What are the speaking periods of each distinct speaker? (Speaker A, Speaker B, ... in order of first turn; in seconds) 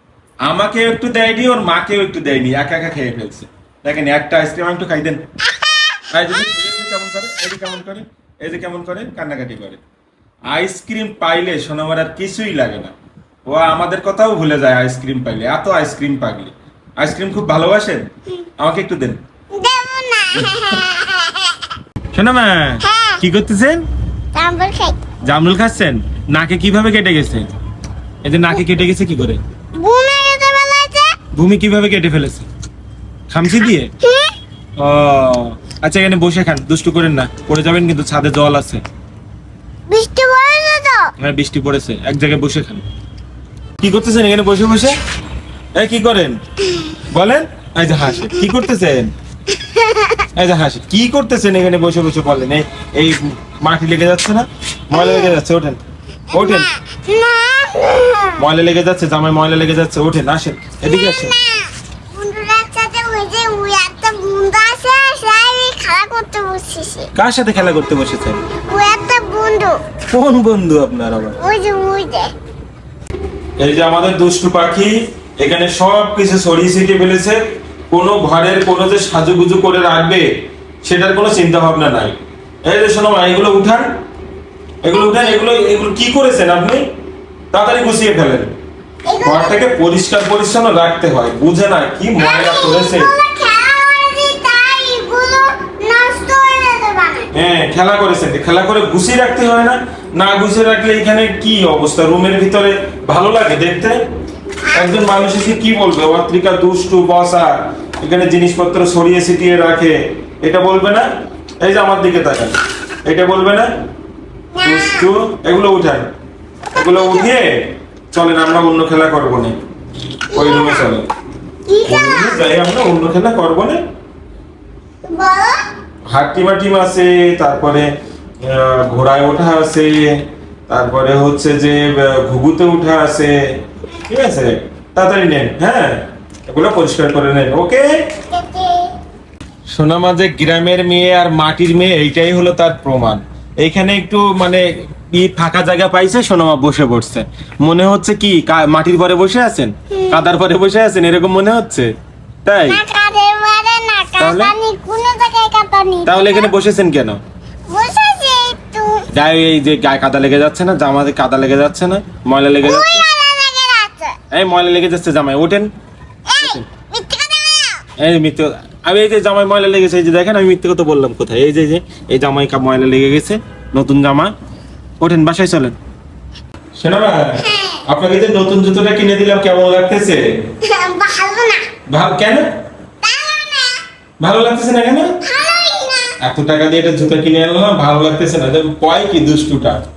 Speaker A: 0.4-5.2, 6.1-9.8, 10.5-12.9, 13.4-19.2, 20.3-20.7, 22.1-23.8, 25.2-27.5, 28.2-29.4, 31.3-32.5, 33.3-33.9, 34.8-38.8, 41.2-42.8, 43.8-45.0, 45.7-46.4, 47.1-49.1, 50.3-55.8, 56.3-56.7, 58.4-61.3, 67.1-68.4, 70.1-71.4, 73.6-77.4, 77.9-80.3, 80.8-83.9, 84.8-86.8, 87.5-88.5, 89.2-93.1, 97.3-104.0, 104.7-111.1, 111.6-113.7, 114.6-116.1, 116.7-119.6, 120.3-121.1, 121.8-123.8, 126.1-127.9, 128.4-133.4, 134.1-138.0, 139.7-152.8, 154.2-154.5, 156.1-157.2, 159.1-163.0, 164.3-165.7, 166.4-166.7, 168.0-174.3, 175.0-175.8, 176.8-180.3, 181.9-182.5, 184.2-185.2, 186.2-189.8
Speaker B: 19.5-21.7, 22.8-23.2, 24.3-25.0, 29.8-31.2, 34.0-34.3, 39.9-41.1, 49.5-50.2, 54.9-55.4, 56.3-58.4, 60.8-67.1, 68.6-69.8, 71.4-72.3, 89.1-89.6, 92.2-97.3, 114.5-115.1, 116.8-117.3, 120.3-120.9, 121.7-122.5, 125.0-125.6, 138.3-138.9, 152.7-156.5, 157.7-159.1, 162.6-164.2, 166.3-167.8, 177.4-177.8, 180.6-181.7, 183.0-183.8, 185.2-186.2